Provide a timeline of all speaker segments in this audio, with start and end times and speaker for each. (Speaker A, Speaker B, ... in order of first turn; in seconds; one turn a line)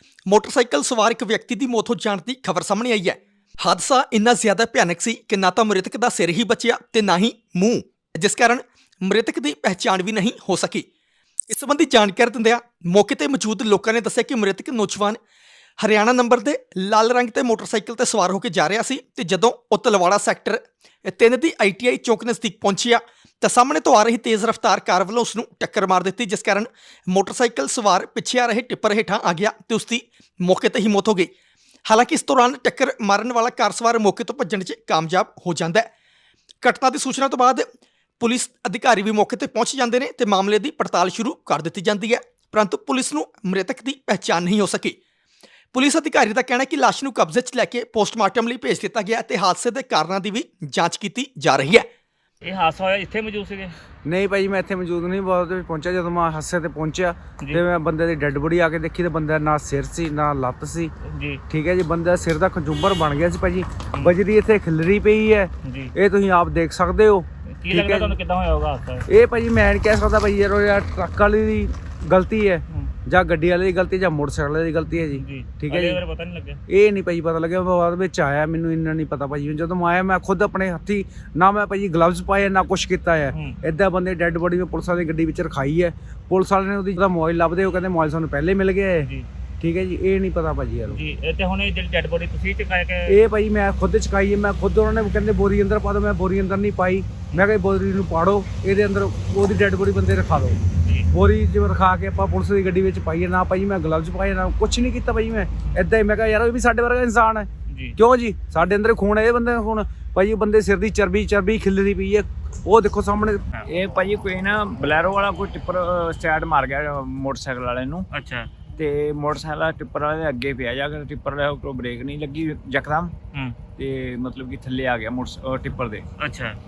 Speaker A: 0.3-10.9
Speaker A: 11.5-15.2
Speaker A: 15.8-31.3
Speaker A: 31.9-35.9
Speaker A: 36.6-37.7
Speaker A: 38.2-45.0
Speaker A: 45.7-51.9
Speaker B: 52.4-53.8
Speaker C: 54.0-60.9
Speaker B: 61.0-61.4
Speaker C: 61.5-68.2
Speaker B: 65.6-65.9
Speaker B: 67.5-69.1
Speaker C: 69.1-76.0
Speaker B: 75.2-76.6
Speaker C: 76.7-89.1
Speaker B: 83.3-83.6
Speaker B: 89.0-89.3
Speaker C: 89.6-91.0
Speaker B: 90.9-93.2
Speaker C: 93.1-113.4
Speaker B: 100.8-101.1
Speaker B: 107.7-108.0
Speaker D: 113.7-118.1
Speaker B: 118.1-118.5
Speaker D: 118.8-123.1
Speaker D: 123.8-126.1
Speaker B: 126.2-126.6